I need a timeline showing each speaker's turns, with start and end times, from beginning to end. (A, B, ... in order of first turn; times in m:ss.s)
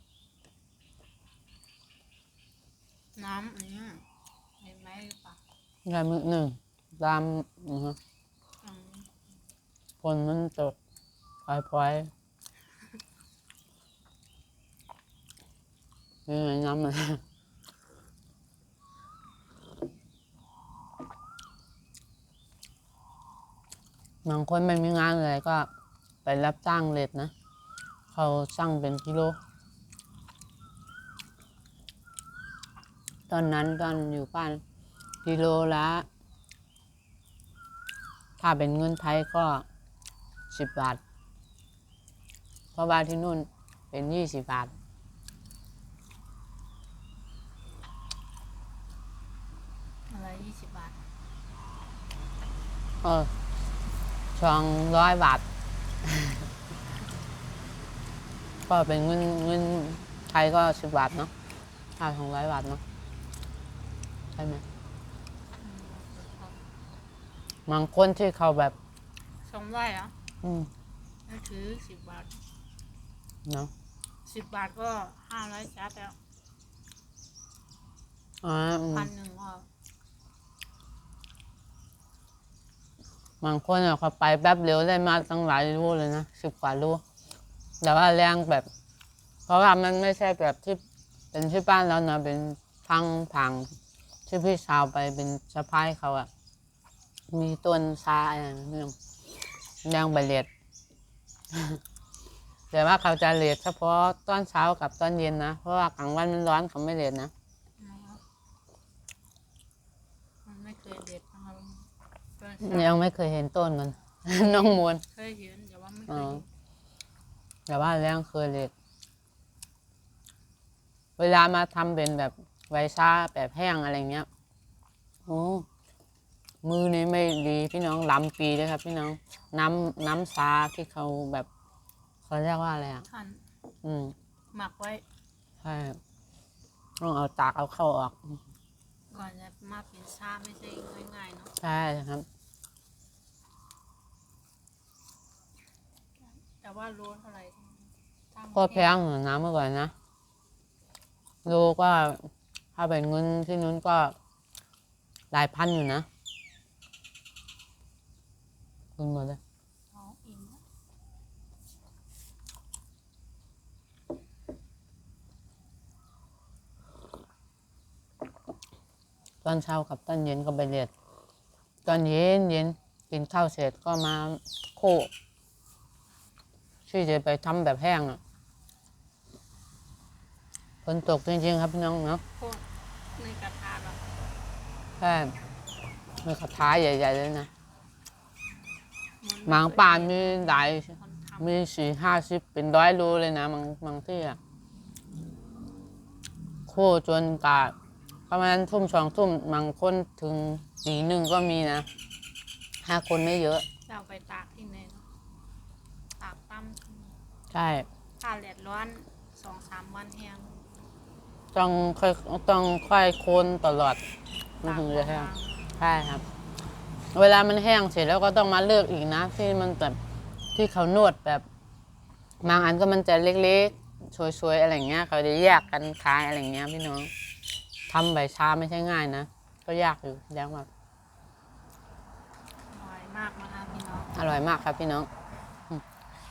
0:03.2-0:04.0 A
0:04.6-0:05.4 A
0:05.8-0:08.0 B
0:08.6-0:09.2 A
0:10.0-0:10.8 B
0:11.4-0:12.1 B
0:16.3-0:17.2 B
0:24.2-0:25.7 B
0:26.2-0:27.3 B
0:28.1-0:29.4 B
0:33.3-0:34.6 B
0:35.2-0:36.0 B
0:38.4-0:39.6 B
0:40.5-0:41.0 B
0:42.7-0:44.7 B
0:50.1-0:51.0 A
0:53.0-0:53.3 B
0:54.4-0:55.4 B
0:56.0-0:56.4 B
0:58.7-1:01.3 B
1:02.0-1:02.8 B
1:04.4-1:04.6 B
1:05.6-1:06.6 A
1:07.7-1:08.7 B
1:09.4-1:10.1 A
1:10.4-1:10.7 B
1:11.2-1:12.4 A
1:13.4-1:13.7 B
1:14.2-1:16.2 A
1:18.4-1:19.1 B
1:18.9-1:19.7 A
1:23.4-1:27.0 B
1:27.8-1:28.7 B
1:29.5-1:30.8 B
1:31.3-1:33.7 B
1:34.3-1:36.3 B
1:37.3-1:39.0 B
1:39.8-1:40.5 B
1:41.5-1:41.8 B
1:42.7-1:47.3 B
1:47.8-1:48.2 A
1:50.4-1:51.9 A
1:52.4-1:53.0 A
1:52.6-1:55.0 B
1:54.6-1:56.5 A
1:56.1-1:56.4 B
1:57.7-1:58.7 B
2:01.2-2:04.3 B
2:05.2-2:05.6 B
2:06.6-2:11.5 B
2:12.3-2:13.1 B
2:13.1-2:13.4 A
2:13.8-2:14.1 B
2:14.5-2:15.0 A
2:15.6-2:16.0 B
2:17.0-2:18.4 B
2:19.1-2:21.5 A
2:21.6-2:22.2 B
2:26.2-2:29.0 A
2:28.5-2:29.9 B
2:31.4-2:34.1 B
2:35.3-2:36.1 B
2:39.0-2:39.4 B
2:39.9-2:40.6 A
2:49.4-2:50.9 B
2:51.8-2:55.1 B
2:56.9-2:58.2 B
3:00.8-3:02.2 B
3:02.4-3:02.6 A
3:03.1-3:04.0 A
3:05.0-3:05.3 B
3:06.2-3:07.5 B
3:09.2-3:11.6 A
3:09.4-3:14.4 B
3:16.7-3:17.7 B
3:18.3-3:21.9 B
3:22.8-3:23.6 B
3:23.9-3:25.0 A
3:26.2-3:27.2 A
3:27.5-3:27.9 B
3:28.2-3:30.6 A
3:31.5-3:34.0 B
3:34.6-3:36.2 B
3:34.6-3:35.8 A
3:37.1-3:40.0 B
3:40.5-3:41.4 B
3:42.4-3:47.1 B
3:45.4-3:45.7 A
3:47.9-3:50.7 B
3:52.7-3:54.1 A
3:54.1-3:55.1 B